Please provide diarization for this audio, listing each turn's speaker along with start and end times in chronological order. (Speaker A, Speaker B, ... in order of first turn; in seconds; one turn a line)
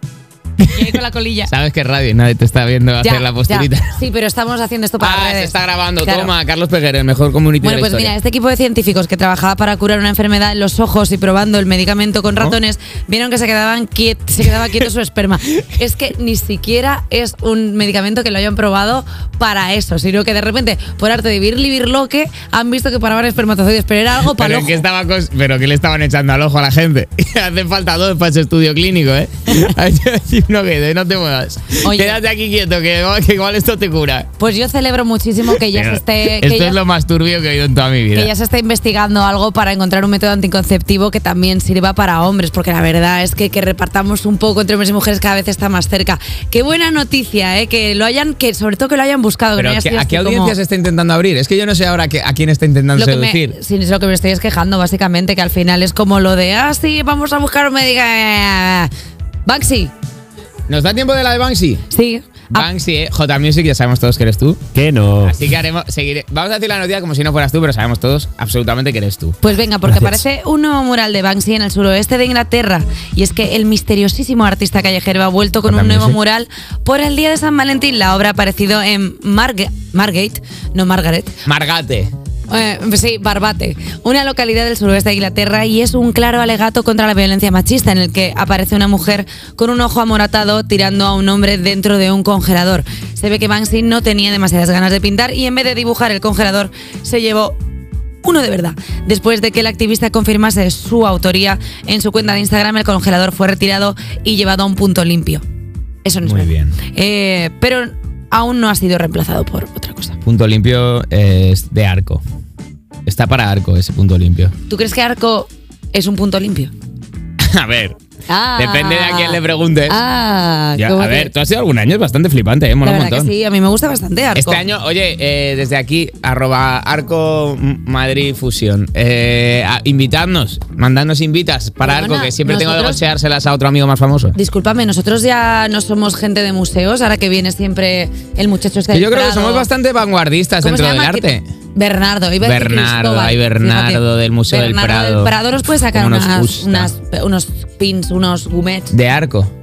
Speaker A: 0.6-1.5
Speaker B: 0.6-0.9
Speaker B: 1.5-4.0
Speaker A: 3.0-6.3
Speaker B: 5.0-8.1
Speaker A: 7.6-24.8
Speaker B: 24.3-34.3
Speaker A: 31.8-32.2
Speaker A: 34.4-36.8
Speaker B: 35.5-38.3
Speaker A: 38.1-50.5
Speaker B: 49.5-53.5
Speaker A: 53.0-58.9
Speaker A: 59.5-59.9
Speaker B: 60.7-61.8
Speaker A: 61.9-62.7
Speaker B: 62.5-70.2
Speaker A: 69.4-81.4
Speaker B: 75.7-76.2
Speaker B: 81.4-82.1
Speaker A: 82.5-97.5
Speaker A: 98.2-105.4
Speaker A: 106.0-110.2
Speaker B: 106.2-106.8
Speaker B: 110.2-112.2
Speaker B: 113.0-114.5
Speaker A: 114.7-116.7
Speaker B: 117.4-118.0
Speaker A: 118.3-121.3
Speaker B: 118.6-120.0
Speaker B: 120.8-123.3
Speaker A: 122.8-124.6
Speaker B: 124.3-134.3
Speaker A: 131.8-133.0
Speaker A: 134.3-139.7
Speaker B: 138.9-141.4
Speaker A: 140.6-148.9
Speaker B: 142.4-145.3
Speaker B: 145.9-146.9
Speaker B: 148.9-149.5